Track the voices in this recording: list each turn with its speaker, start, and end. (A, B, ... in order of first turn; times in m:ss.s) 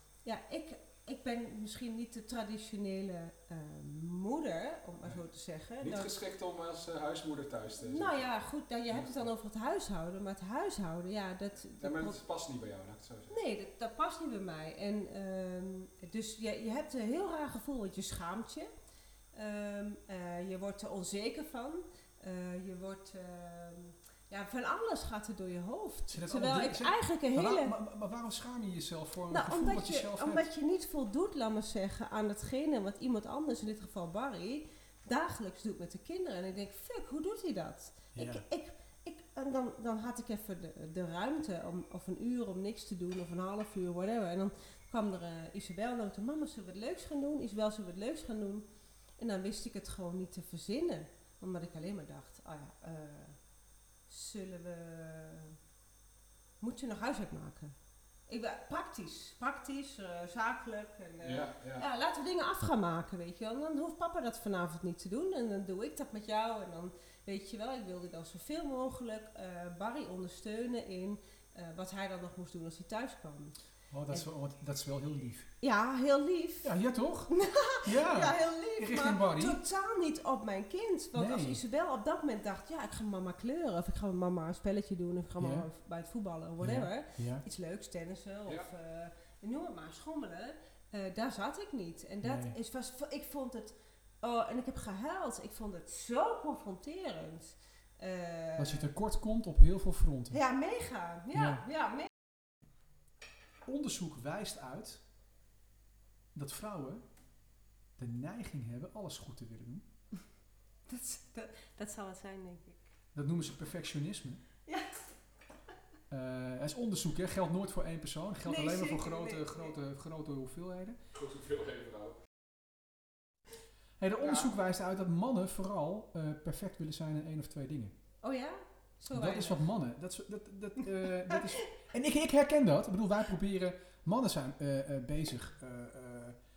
0:00.2-0:06.1 A
0:05.8-0:08.2 B
0:07.8-0:12.2 A
0:08.9-0:09.2 B
0:11.8-0:13.3 B
0:13.3-0:18.7 A
0:19.3-0:27.7 A
0:26.1-0:30.4 C
0:29.3-0:48.6 A
0:38.1-0:38.4 C
0:49.2-0:53.4 A
0:54.1-0:55.6 A
0:56.6-0:57.7 A
0:58.3-1:13.5 A
1:01.2-1:01.8 B
1:13.9-1:15.5 C
1:15.6-1:16.7 A
1:16.6-1:19.6 C
1:17.3-1:38.9 A
1:21.1-1:21.6 C
1:25.4-1:25.6 C
1:26.6-1:27.4 C
1:32.2-1:32.5 C
1:38.6-1:40.4 C
1:40.3-1:42.1 A
1:41.3-1:41.6 C
1:43.6-1:45.0 C
1:46.3-1:47.0 C
1:48.0-1:49.8 C
1:50.9-1:52.8 A
1:53.1-1:54.4 C
1:54.7-1:55.0 A
1:56.1-2:01.0 C
1:58.4-1:59.7 A
2:01.2-2:02.2 B
2:04.0-2:07.9 C
2:04.2-2:04.5 B
2:08.2-2:09.6 A
2:09.1-2:16.4 C